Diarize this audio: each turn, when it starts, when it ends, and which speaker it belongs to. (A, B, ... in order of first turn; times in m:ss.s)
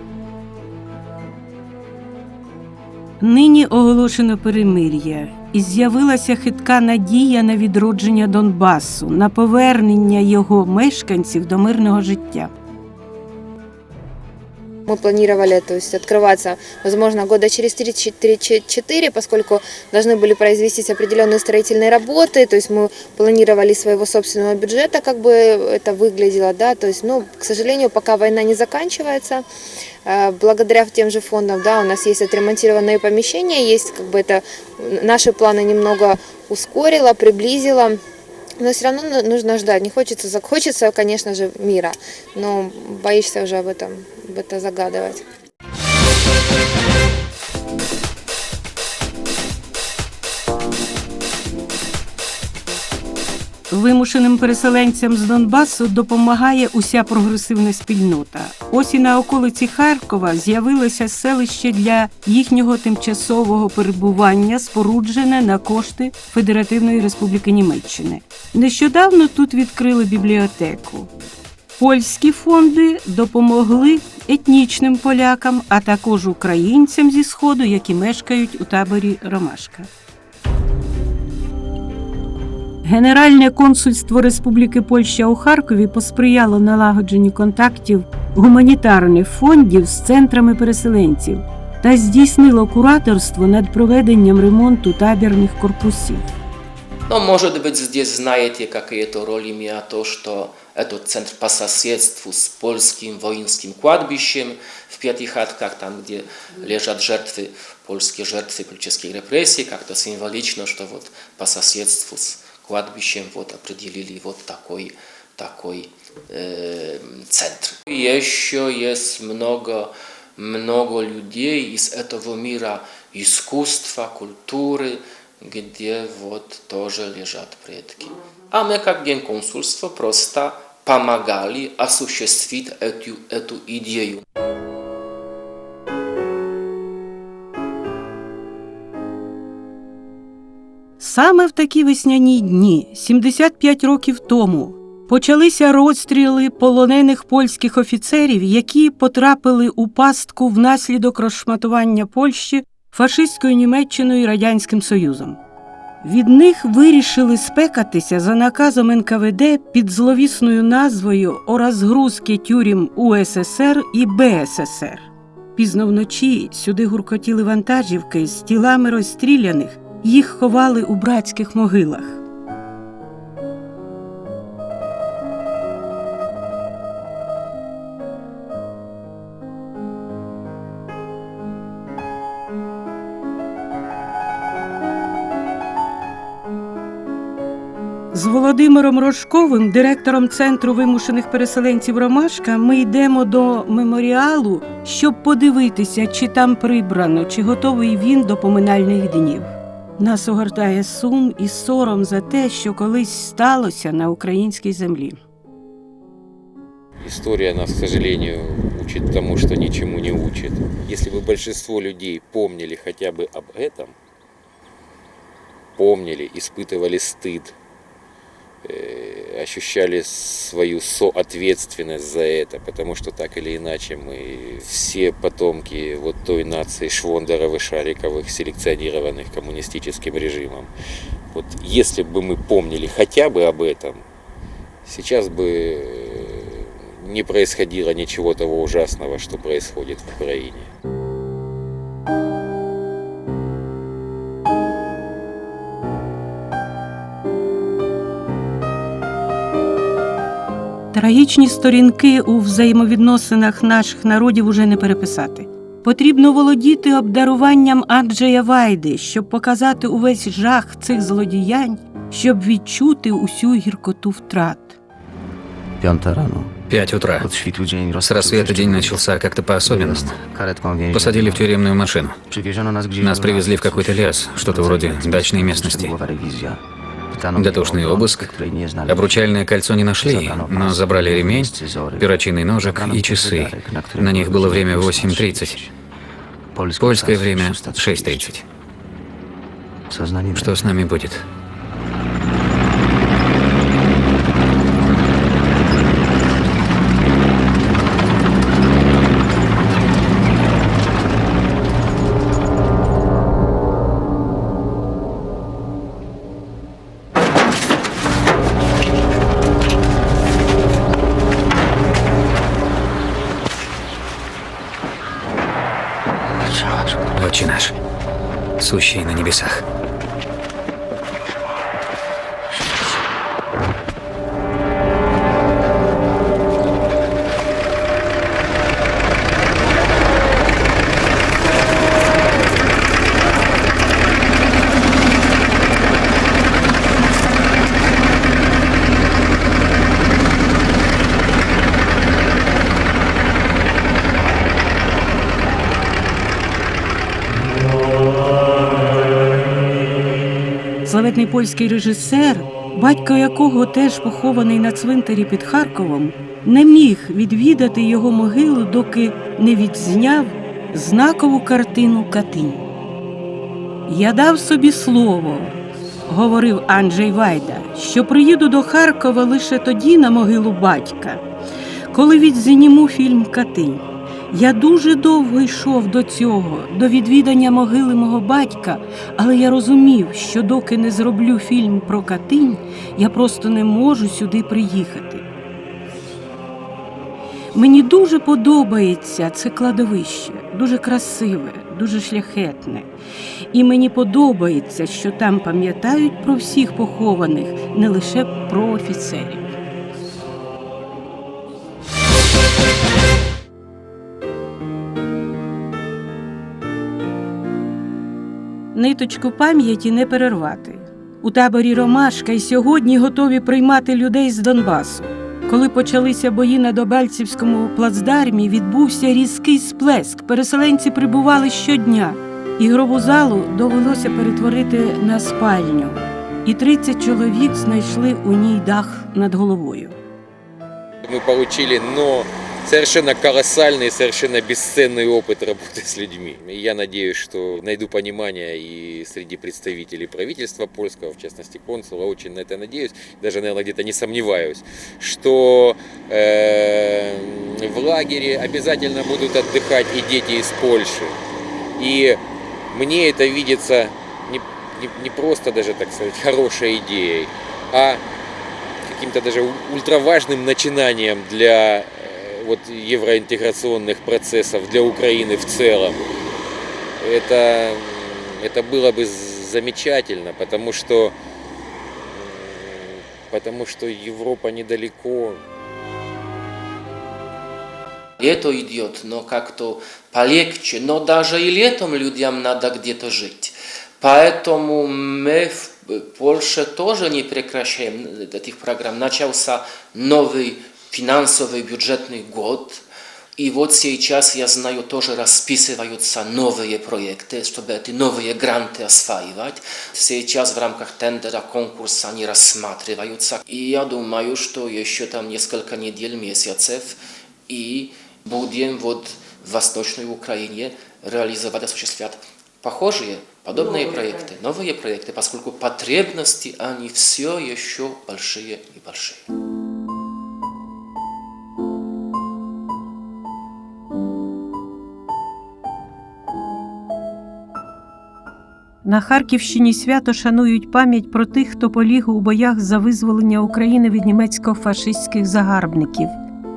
0:03.2-0:12.5 A
0:14.9-0:29.4 B
0:30.1-0:38.0 B
0:38.6-0:45.2 B
0:53.7-1:11.1 A
1:11.8-1:19.9 A
1:22.8-1:36.2 A
1:37.1-2:14.2 C
2:21.0-2:35.4 A
2:36.0-2:52.2 A
3:08.1-3:25.2 A
3:27.0-3:34.0 D
3:35.8-3:37.6 D
3:38.6-3:50.7 D
3:51.3-3:54.0 D
3:54.8-4:00.7 D
4:10.9-4:24.8 A
4:25.8-4:31.6 E
4:26.7-4:27.3 F
4:28.1-4:30.2 F
4:30.9-4:32.2 F
4:32.2-4:39.2 E
4:33.0-4:36.0 F
4:37.4-4:38.4 F
4:38.9-4:45.6 F
4:40.0-4:45.7 E
4:46.5-4:48.4 E
4:46.8-4:48.4 F
4:49.9-4:50.7 E
4:50.4-4:51.2 F
5:16.6-5:16.9 E
5:17.2-5:17.7 F
5:18.6-5:19.6 F
5:50.8-6:02.6 A
6:03.9-6:11.2 A
6:11.9-6:25.3 A
6:27.6-6:32.9 A
6:33.5-6:39.5 A
6:48.7-7:10.0 A
7:11.0-7:31.2 D
7:31.8-7:32.2 D
7:32.7-7:38.0 D
7:38.9-7:46.1 D
7:47.0-7:51.2 D
7:52.0-7:55.4 D
7:58.2-8:12.8 C
8:13.4-8:39.3 C
8:48.8-8:56.2 A